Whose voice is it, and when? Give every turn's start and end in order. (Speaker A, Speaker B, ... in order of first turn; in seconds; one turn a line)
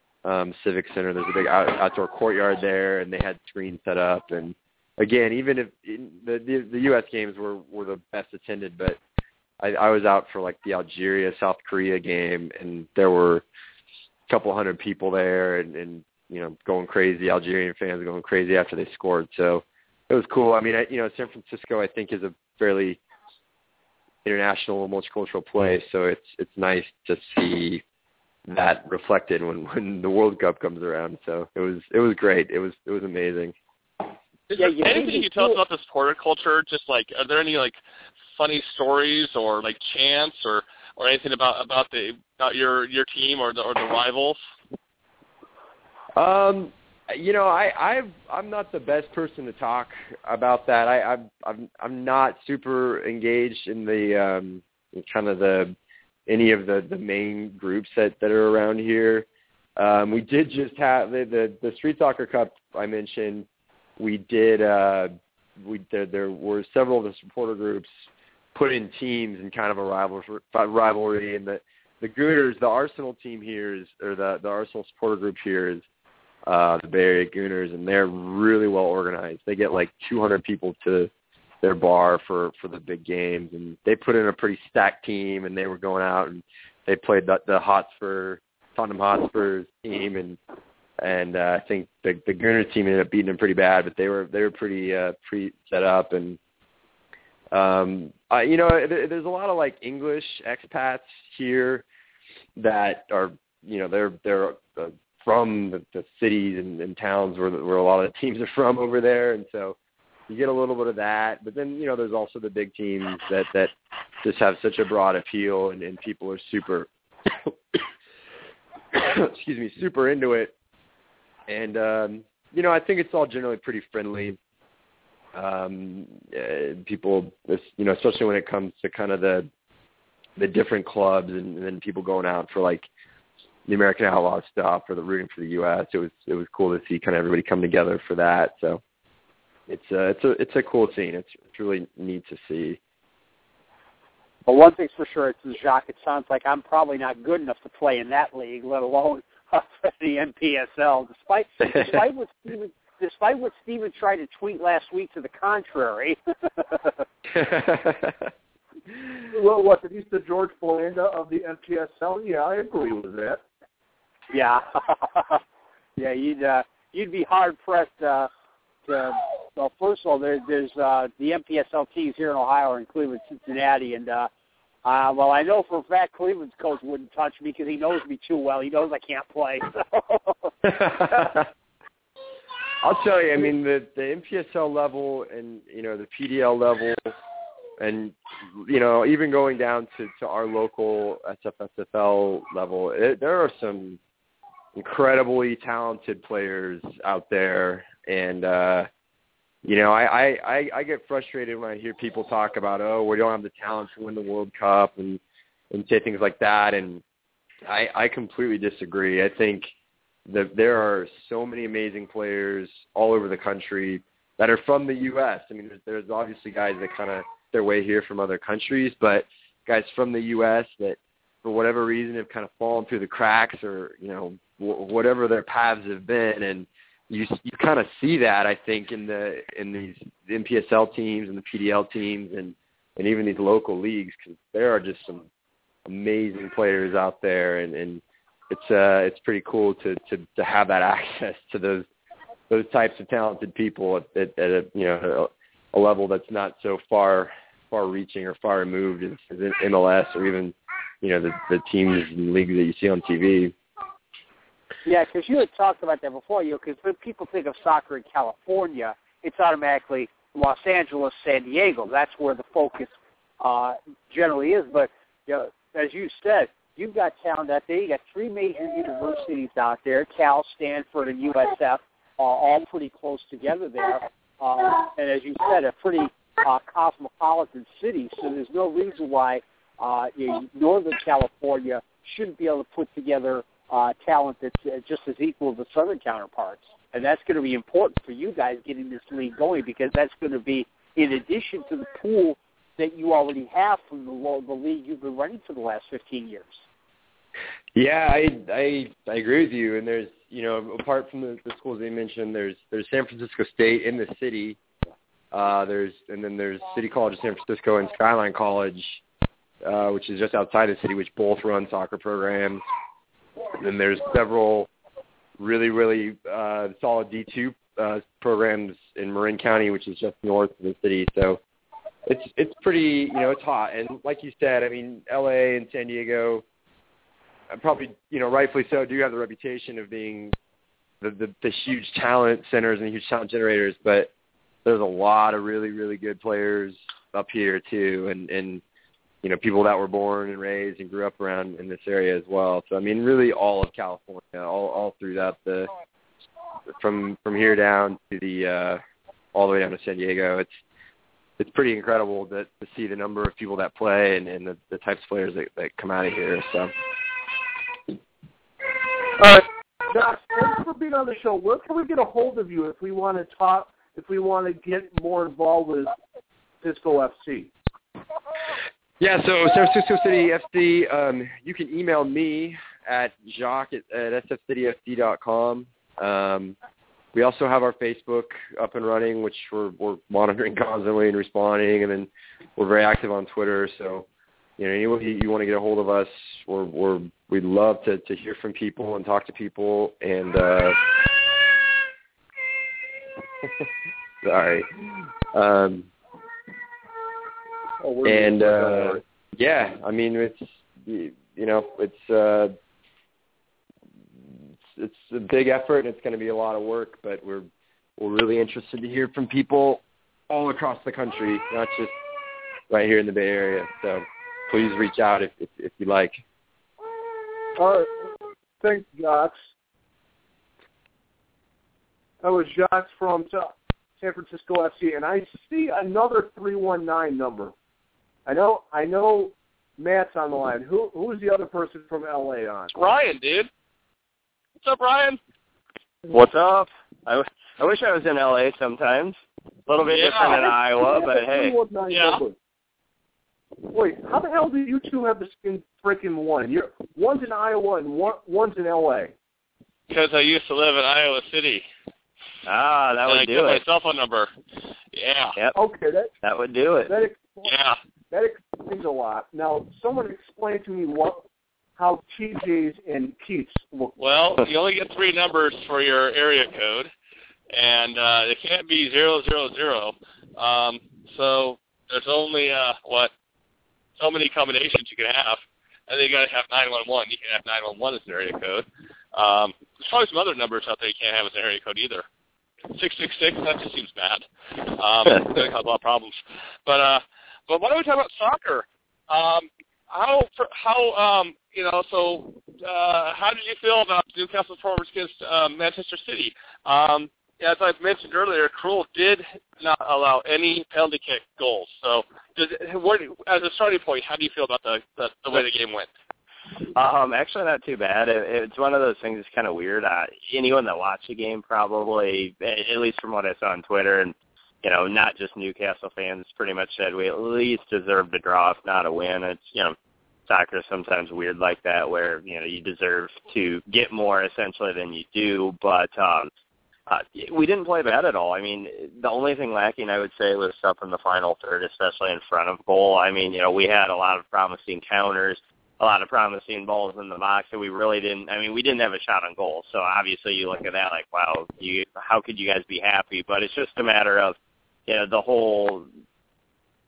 Speaker A: 0.2-9.0
Speaker A: 9.6-13.4
Speaker A: 14.3-23.0
Speaker A: 24.2-27.8
Speaker A: 28.5-33.5
Speaker B: 34.5-37.8
Speaker C: 34.6-35.6
Speaker B: 38.4-44.4
Speaker A: 46.2-55.7
Speaker A: 56.3-63.5
Speaker A: 64.0-67.9
Speaker A: 68.5-75.8
Speaker A: 76.5-81.1
Speaker A: 81.6-90.4
Speaker A: 91.0-96.4
Speaker A: 97.5-101.8
Speaker A: 102.6-109.8
Speaker A: 110.3-113.7
Speaker A: 114.2-117.8
Speaker A: 118.9-120.5
Speaker A: 121.5-124.4
Speaker A: 125.3-129.5
Speaker A: 130.4-132.9
Speaker A: 133.7-138.8
Speaker A: 139.7-142.8
Speaker C: 144.5-156.9
Speaker A: 157.4-158.1
Speaker D: 159.3-163.4
Speaker C: 164.3-165.4
Speaker C: 166.0-168.3
Speaker C: 168.9-174.3
Speaker C: 174.8-181.4
Speaker A: 182.8-187.1
Speaker A: 187.8-194.0
Speaker A: 194.8-198.9
Speaker A: 199.6-207.0
Speaker A: 207.7-209.7
Speaker A: 210.3-235.3
Speaker A: 235.9-241.9
Speaker A: 242.5-253.5
Speaker C: 254.8-296.6
Speaker A: 297.8-304.6
Speaker A: 305.3-309.0
Speaker A: 309.6-312.6
Speaker A: 313.6-314.7
Speaker A: 315.4-321.4
Speaker A: 322.1-326.4
Speaker A: 327.5-330.3
Speaker A: 331.0-334.1
Speaker A: 334.6-338.6
Speaker A: 339.2-345.7
Speaker A: 346.7-348.8
Speaker A: 349.3-350.5
Speaker A: 351.4-356.7
Speaker D: 359.2-365.9
Speaker D: 366.6-367.5
Speaker A: 369.0-376.6
Speaker A: 377.1-384.1
Speaker A: 384.6-390.8
Speaker A: 394.2-395.9
Speaker D: 397.8-399.0
Speaker A: 398.0-402.6
Speaker A: 404.7-407.5
Speaker A: 408.0-411.9
Speaker A: 412.7-416.2
Speaker D: 417.6-419.5
Speaker D: 422.2-427.5
Speaker D: 428.3-432.7
Speaker B: 432.7-433.5
Speaker B: 434.6-435.2
Speaker E: 436.1-441.6
Speaker B: 439.9-440.4
Speaker D: 440.1-442.4
Speaker B: 441.9-442.2
Speaker D: 443.7-449.1
Speaker B: 449.9-451.7
Speaker E: 452.5-453.6
Speaker B: 453.1-454.3
Speaker B: 454.9-455.4
Speaker D: 455.6-456.1
Speaker E: 456.2-457.0
Speaker D: 456.9-457.5
Speaker B: 457.4-457.8
Speaker D: 458.1-461.2
Speaker D: 461.8-463.9
Speaker B: 464.0-466.9
Speaker B: 467.5-473.1
Speaker B: 474.0-482.1
Speaker B: 482.7-505.9
Speaker E: 506.8-519.8
Speaker E: 520.3-526.3
Speaker E: 526.9-544.4
Speaker E: 544.9-545.9